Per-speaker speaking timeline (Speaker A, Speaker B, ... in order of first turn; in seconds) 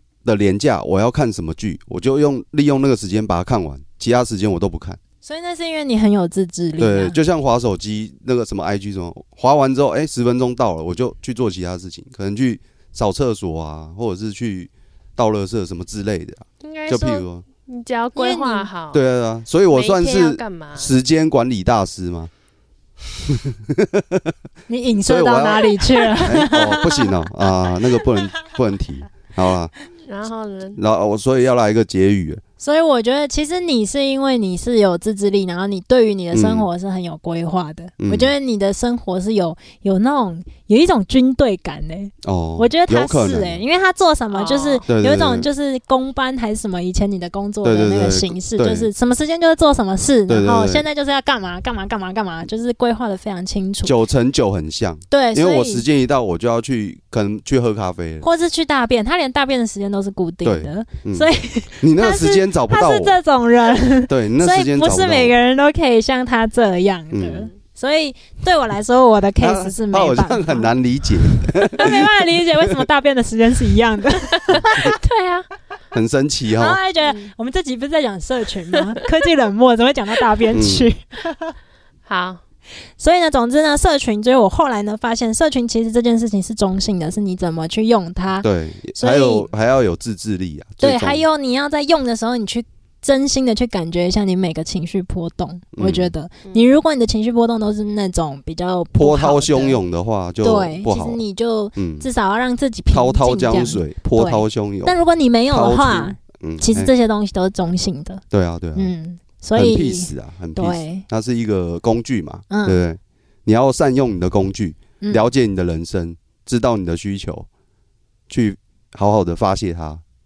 Speaker A: 0.2-5.0, 6.8-17.4, 18.9-22.3, 23.3-24.3, 25.1-29.7, 30.8-32.4, 36.3-36.7, 38.0-38.3, 42.2-43.6, 44.9-45.5, 47.6-48.9, 50.3-50.9, 53.8-58.2, 60.4-61.3, 61.8-63.2, 64.1-65.3, 67.1-67.5, 69.4-72.0, 75.9-76.8, 80.5-80.9, 88.4-91.2, 95.7-96.1, 99.0-101.2, 101.8-102.1, 102.9-105.0, 105.5-106.9, 108.3-108.9, 109.6-117.5, 118.3-120.0
Speaker B: 5.2-7.2, 18.2-18.7, 24.7-27.2, 32.6-53.9, 55.1-55.8, 58.2-70.7, 71.7-74.9, 76.6-81.6, 83.0-89.5, 90.8-99.8, 100.4-108.2, 108.8-111.0, 112.5-112.8, 115.0-115.3
Speaker C: 16.6-19.0, 19.7-20.9, 30.1-30.8, 44.3-44.9, 74.3-75.5, 77.0-77.3, 82.1-82.4, 96.4-96.7